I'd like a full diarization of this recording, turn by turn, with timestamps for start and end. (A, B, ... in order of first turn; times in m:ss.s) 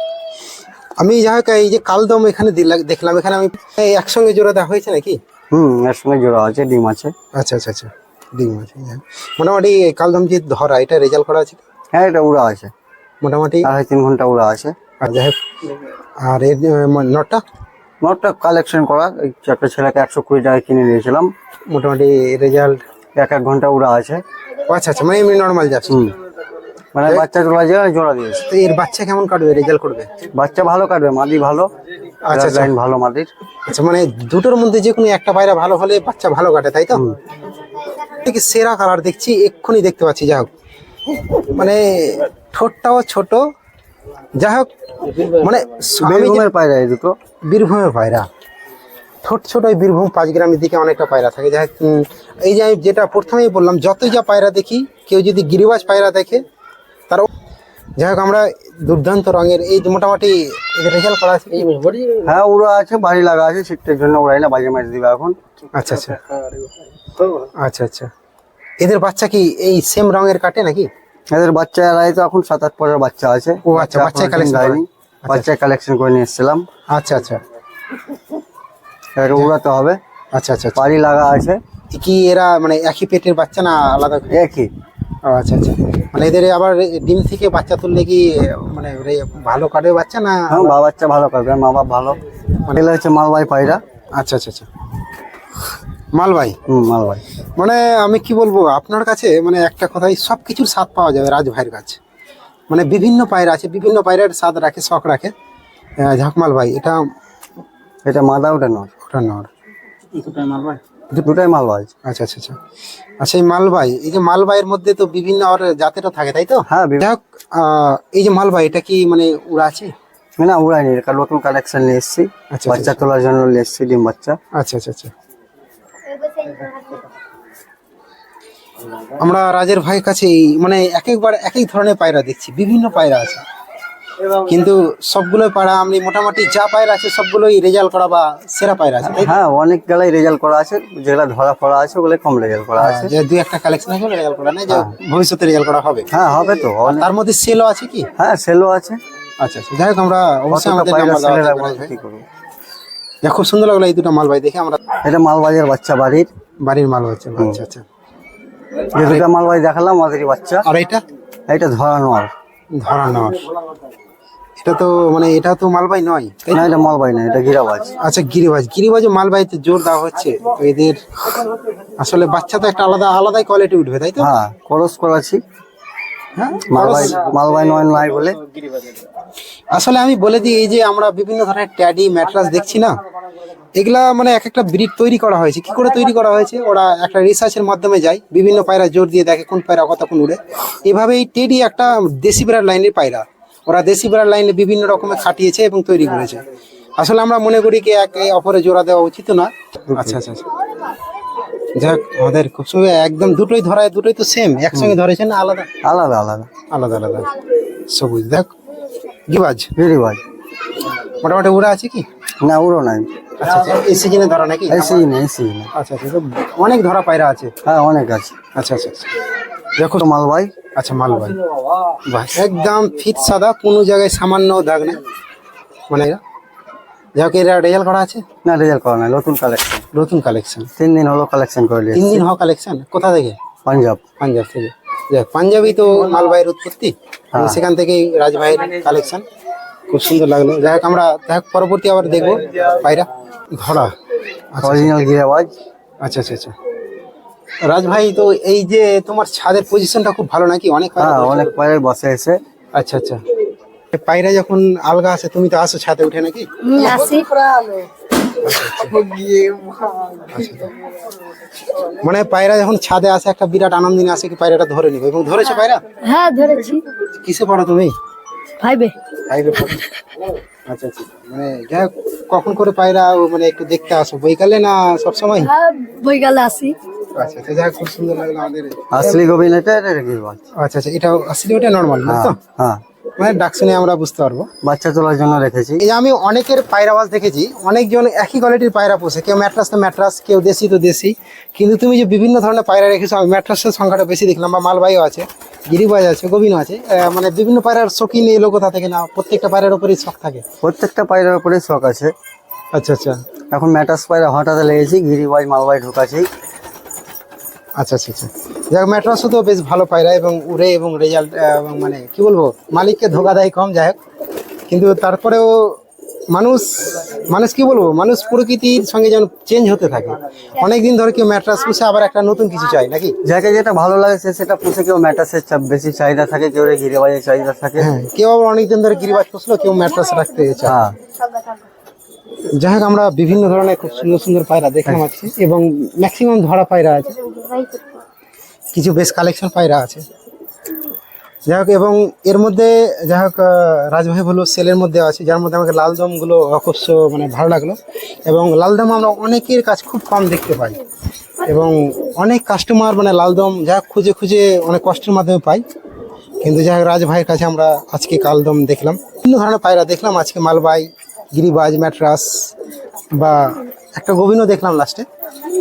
0:01.0-0:05.2 A
0:05.5-0:07.1 B
0:07.4-0:11.6 A
0:11.9-0:12.7 B
0:13.2-0:13.7 A
0:13.6-0:14.8 B
0:15.0-0:15.4 A
0:16.2-0:17.4 A
0:18.0-0:21.3 B
0:21.7-0:22.8 A
0:23.2-0:24.2 B
0:24.7-0:26.1 A
0:25.9-0:26.1 B
0:26.9-0:28.5 B
0:28.5-0:30.1 A
0:30.4-0:31.7 B
0:32.3-0:32.7 A
0:32.3-0:33.3 B
0:33.7-0:37.0 A
0:38.1-0:40.5 A
0:41.3-0:43.4 A
0:44.4-0:46.5 A
0:46.0-0:47.2 B
0:47.5-0:48.3 A
0:49.2-0:56.4 A
0:58.0-1:01.8 A
1:02.1-1:05.4 B
1:05.7-1:06.2 A
1:07.6-1:08.1 A
1:08.8-1:10.9 A
1:11.3-1:16.7 B
1:13.7-1:15.5 A
1:16.9-1:17.4 A
1:19.2-1:20.0 B
1:20.3-1:20.9 A
1:20.8-1:21.6 B
1:21.9-1:24.4 A
1:24.3-1:24.7 B
1:25.2-1:30.8 A
1:30.5-1:32.2 B
1:32.7-1:33.8 B
1:34.2-1:34.7 A
1:36.1-1:36.6 A
1:36.7-1:37.2 B
1:37.6-1:42.0 A
1:42.7-1:45.3 A
1:46.0-1:47.0 A
1:48.0-1:48.9 B
1:49.0-1:49.5 A
1:50.2-1:51.3 A
1:51.2-1:51.9 B
1:52.0-1:52.6 A
1:53.2-1:59.9 A
1:56.7-1:57.1 B
2:00.4-2:04.4 B
2:02.5-2:03.0 A
2:04.6-2:05.1 A
2:09.2-2:13.4 A
2:14.4-2:19.3 A
2:19.0-2:23.1 B
2:22.8-2:26.1 A
2:26.1-2:27.1 B
2:26.8-2:28.1 A
2:28.2-2:29.0 B
2:29.4-2:31.9 A
2:30.5-2:32.2 B
2:33.2-2:34.8 A
2:35.0-2:36.3 B
2:36.6-2:37.8 A
2:38.9-2:40.7 B
2:39.0-2:39.3 A
2:40.6-2:41.0 A
2:41.5-2:42.3 B
2:42.7-2:43.5 A
2:44.6-2:46.7 A
2:46.5-2:47.9 B
2:48.0-2:51.4 A
2:52.0-2:54.3 A
2:54.2-2:55.4 B
2:56.4-2:57.3 A
2:56.6-2:58.4 B
2:59.7-3:03.0 A
3:03.7-3:16.4 A
3:17.0-3:20.5 A
3:19.9-3:20.2 B
3:21.8-3:25.7 A
3:25.8-3:26.5 B
3:26.7-3:27.3 A
3:27.9-3:28.5 A
3:29.3-3:29.7 A
3:29.8-3:30.2 B
3:31.2-3:32.0 A
3:32.4-3:33.1 B
3:33.4-3:35.0 A
3:34.7-3:35.7 B
3:35.8-3:37.5 A
3:37.6-3:38.4 B
3:38.6-3:39.1 A
3:39.8-3:40.1 A
3:40.0-3:40.5 B
3:40.8-3:41.4 A
3:42.1-3:45.0 A
3:45.9-3:46.2 A
3:47.2-3:48.2 A
3:48.4-3:49.8 B
3:49.9-3:50.7 A
3:50.8-3:52.2 B
3:51.9-3:53.4 A
3:53.6-3:54.0 B
3:54.2-3:59.2 A
3:57.3-3:57.6 B
3:59.9-4:03.9 A
4:04.5-4:05.0 A
4:04.6-4:05.5 B
4:06.0-4:06.5 A
4:07.7-4:11.5 A
4:11.0-4:12.4 B
4:12.8-4:13.2 A
4:13.9-4:17.0 A
4:16.6-4:17.8 C
4:18.3-4:19.1 A
4:20.3-4:20.7 A
4:22.0-4:25.8 A
4:26.0-4:26.9 C
4:27.2-4:27.9 A
4:28.6-4:29.0 C
4:29.3-4:29.8 A
4:30.7-4:35.5 A
4:35.4-4:36.8 C
4:37.1-4:39.2 A
4:38.9-4:40.4 B
4:40.6-4:42.4 A
4:42.1-4:42.8 B
4:43.2-4:44.5 A
4:44.6-4:45.8 B
4:45.8-5:00.4 A
5:00.6-5:02.1 B
5:02.7-5:03.2 A
5:03.5-5:06.3 B
5:07.8-5:14.0 A
5:14.7-5:15.8 A
5:16.3-5:23.2 A
5:23.2-5:27.9 B
5:27.8-5:30.8 A
5:30.7-5:31.0 B
5:32.6-5:37.6 A
5:38.7-5:40.0 A
5:41.5-5:50.8 A
5:51.4-5:55.6 A
5:56.4-6:02.5 A
6:03.2-6:05.1 A